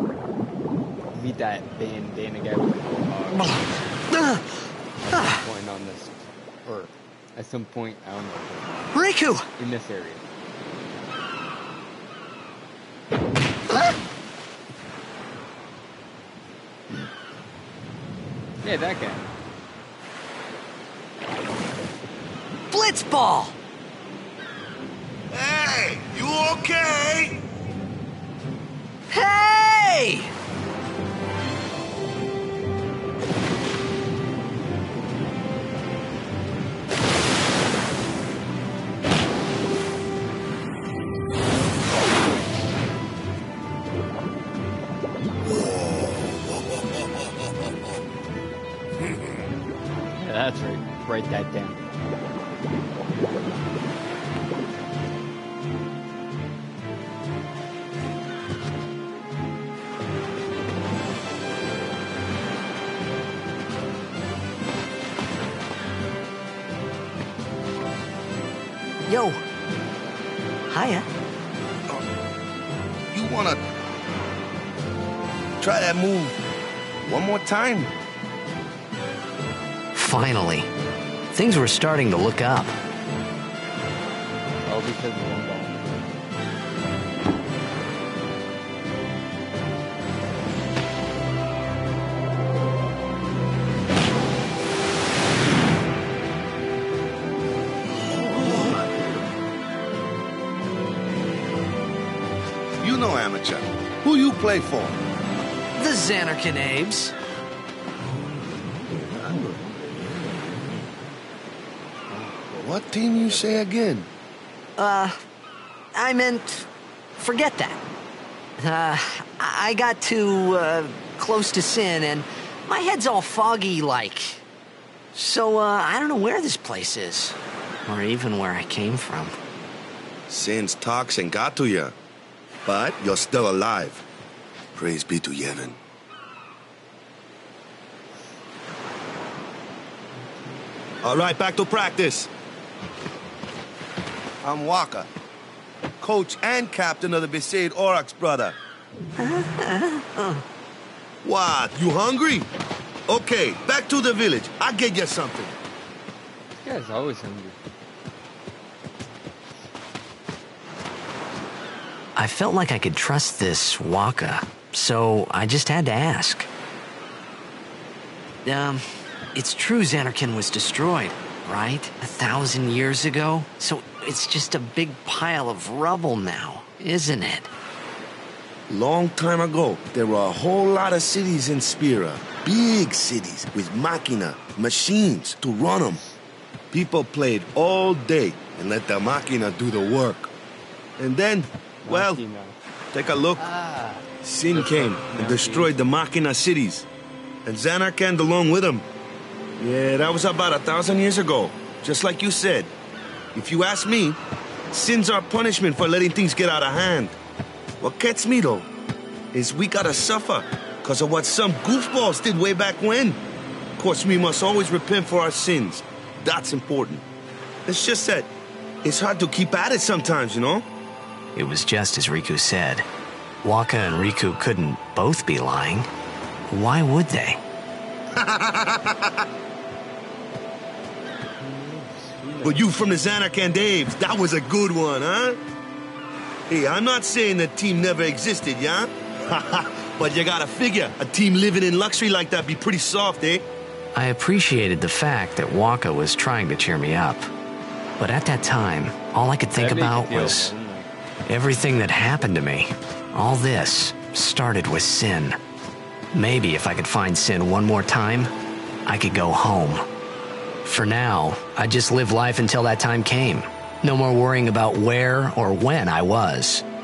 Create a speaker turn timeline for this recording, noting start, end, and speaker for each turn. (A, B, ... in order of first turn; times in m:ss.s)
0:01.1-0:03.8 A
0:03.4-0:05.4 B
0:05.0-0:09.0 A
0:08.9-0:09.5 B
0:09.6-0:10.2 A
0:13.7-0:14.0 B
0:18.6-0:19.3 A
0:22.7-0:23.6 B
0:25.3-0:27.4 C
0:29.1-0:30.3 B
0:50.2-0:51.8 A
1:09.1-1:09.4 B
1:10.7-1:11.1 B
1:13.1-1:13.6 C
1:15.6-1:16.4 C
1:17.0-1:17.9 C
1:19.9-1:20.7 B
1:21.3-1:22.8 B
1:24.7-1:26.2 A
1:42.8-1:45.0 C
1:45.8-1:47.2 B
1:52.1-1:53.7 A
1:52.6-1:54.1 C
1:54.8-1:55.2 B
1:55.9-1:57.8 B
1:58.6-2:04.4 B
2:05.1-2:09.4 B
2:10.3-2:12.0 C
2:12.7-2:14.0 C
2:14.8-2:15.8 C
2:21.0-2:22.3 C
2:24.4-2:25.1 C
2:26.0-2:28.6 C
2:29.2-2:30.4 B
2:31.2-2:32.5 C
2:33.1-2:35.6 C
2:36.6-2:37.6 A
2:42.2-2:46.5 B
2:48.4-2:48.8 B
2:49.4-2:57.5 B
2:58.7-3:06.0 C
3:06.7-3:10.3 C
3:11.0-3:12.2 C
3:11.8-3:12.6 A
3:12.9-3:13.4 C
3:13.4-3:15.8 A
3:14.2-3:16.9 C
3:17.5-3:18.8 C
3:19.6-3:22.7 C
3:23.4-3:24.2 C
3:24.7-3:27.2 C
3:27.8-3:28.7 C
3:29.3-3:33.2 C
3:33.8-3:37.0 C
3:37.7-3:38.3 C
3:38.8-3:40.7 C
3:41.4-3:42.9 B
3:43.4-3:45.9 B
3:46.5-3:47.4 B
3:48.2-3:49.2 C
3:51.4-3:52.7 A
3:52.4-3:55.4 C
3:56.5-4:03.4 C
4:04.0-4:07.3 B
4:08.0-4:10.5 B
4:09.5-4:10.9 A
4:11.3-4:15.4 B
4:16.1-4:18.3 B
4:18.9-4:19.8 B
4:20.6-4:26.6 B